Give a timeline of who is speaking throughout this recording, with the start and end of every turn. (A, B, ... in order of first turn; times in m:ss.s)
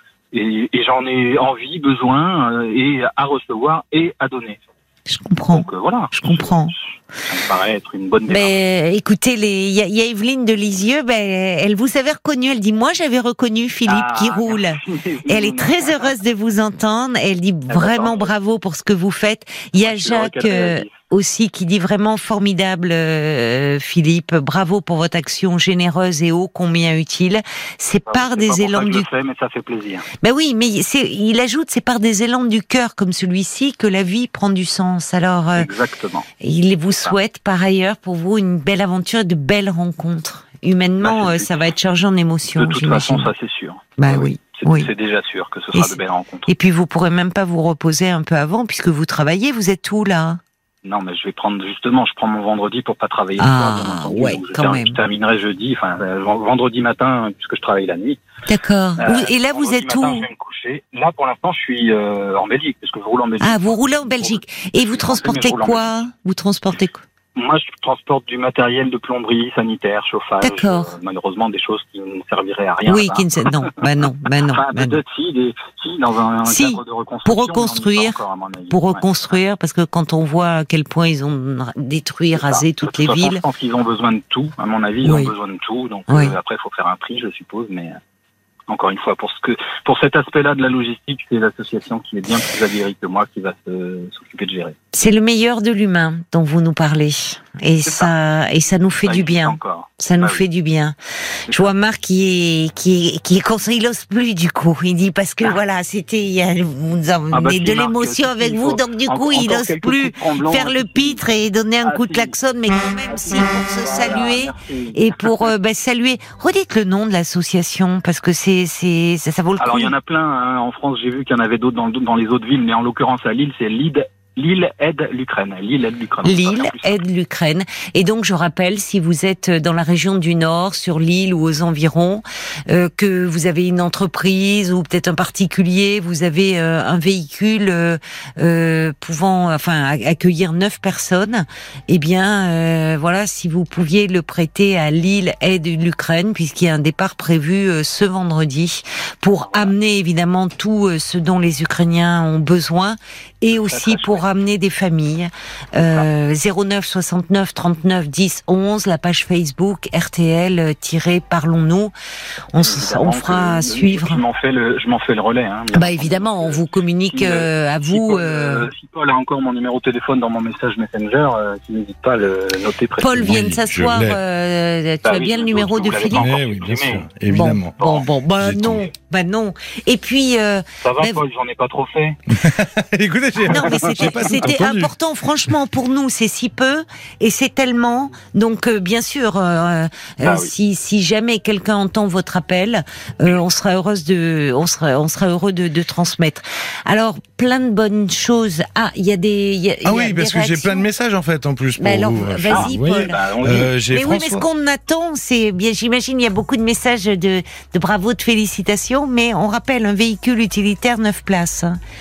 0:00.3-0:04.6 A
0:05.1-0:06.7 B
0:05.5-0:08.5 A
0:08.3-0:29.1 B
0:13.9-0:16.1 A
0:17.7-0:18.3 A
0:19.8-0:20.9 A
0:28.1-0:30.0 A
0:30.2-0:35.7 B
0:35.6-0:36.3 A
0:36.4-0:43.3 B
0:41.0-0:41.6 A
0:42.6-0:46.5 A
0:44.0-0:44.9 B
0:46.5-0:50.4 B
0:50.8-0:58.2 A
0:53.4-0:55.0 B
0:58.5-1:00.3 B
0:59.0-1:05.9 A
1:03.4-1:07.0 B
1:07.3-1:13.8 A
1:10.4-1:10.9 B
1:12.8-1:15.0 B
1:14.5-1:19.0 A
1:16.4-1:18.2 B
1:18.7-1:23.4 B
1:22.4-1:28.0 A
1:25.0-1:25.3 B
1:26.1-1:26.4 B
1:28.7-1:34.8 A
1:34.9-1:59.9 B
1:37.8-1:38.1 A
1:39.0-1:40.4 A
1:47.3-1:51.2 A
1:51.8-1:52.3 A
1:53.1-1:55.5 A
1:59.6-2:07.0 A
2:06.2-2:41.9 B
2:33.5-2:34.2 A
2:42.5-2:44.2 B
2:42.6-2:53.4 A
2:45.7-2:48.7 B
2:53.0-2:56.3 B
2:53.2-2:54.2 C
2:55.0-2:57.0 A
2:56.1-2:58.9 C
2:57.3-3:01.2 B
3:00.8-3:02.2 A
3:02.3-3:04.9 C
3:03.5-3:20.8 B
3:03.5-3:04.2 A
3:10.2-3:10.5 A
3:19.8-3:24.4 C
3:21.8-3:23.2 B
3:22.5-3:23.7 A
3:23.9-3:31.8 B